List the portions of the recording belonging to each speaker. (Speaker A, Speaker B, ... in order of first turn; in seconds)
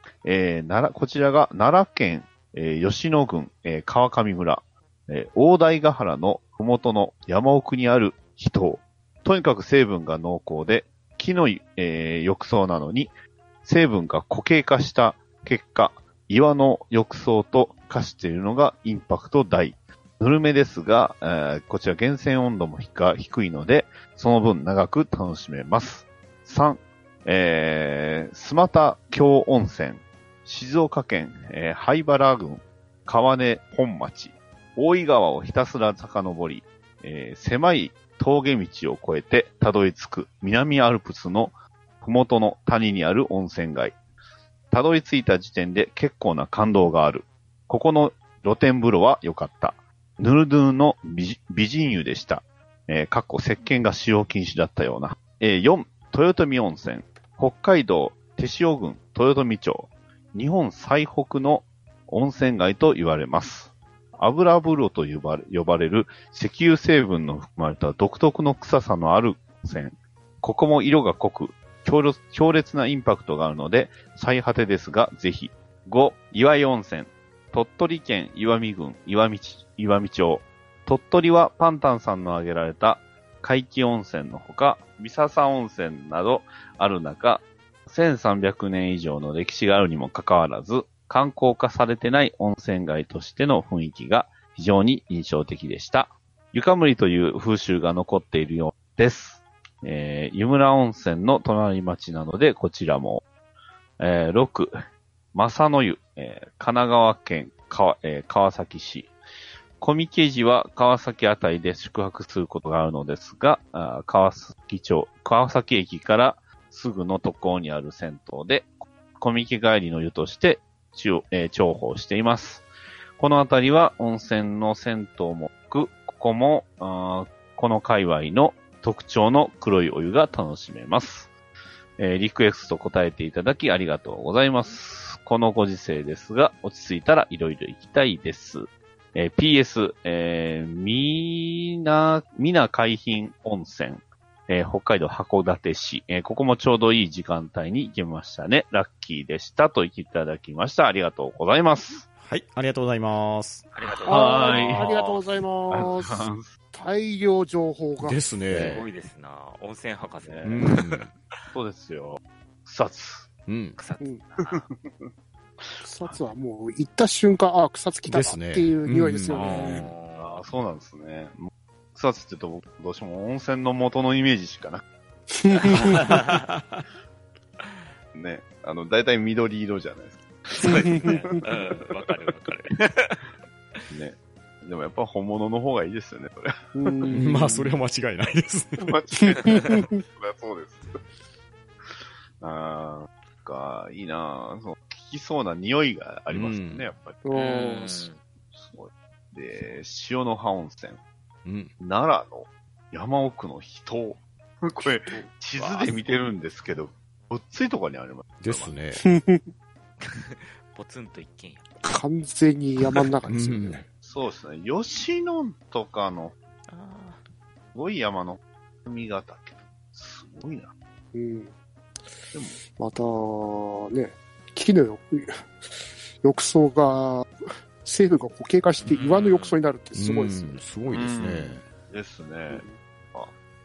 Speaker A: 0.2-44.0, 44.7-103.3, 104.0-104.7, 105.3-109.1, 109.8-122.7, 123.2-131.3, 132.0-152.1, 154.0-154.9, 155.7-156.5, 158.5-158.9, 160.2-160.6, 161.5-163.3, 164.4-165.1, 170.2-174.8, 178.1-182.3, 183.9-187.1, 188.8-191.0, 191.8-197.2, 198.5-201.0, 201.8-208.7, 214.0-216.3, 217.7-220.7, 222.3-222.6, 230.9-233.3
Speaker B: 152.2-153.7, 158.0-158.9, 160.4-161.1, 163.5-163.8, 168.1-169.9, 175.9-176.8, 187.1-188.9, 196.3-196.9, 201.4-201.7, 208.4-209.0, 213.3-213.9, 229.9-231.7
Speaker C: 153.7-155.2, 158.6-161.2, 163.8-164.7, 169.3-170.4, 175.9-176.4, 180.6-183.8, 197.3-198.2, 205.6-206.1, 210.0-211.8, 216.7-217.2, 228.8-229.6
Speaker D: 154.1-158.2, 165.8-169.8, 175.3-176.1, 180.6-181.4, 186.8-187.8, 189.2-190.0, 197.2-198.1, 204.8-205.3, 209.0-209.5, 211.8-213.8, 221.1-221.5, 222.3-225.5, 226.2-227.3, 227.8-230.6, 232.5-232.8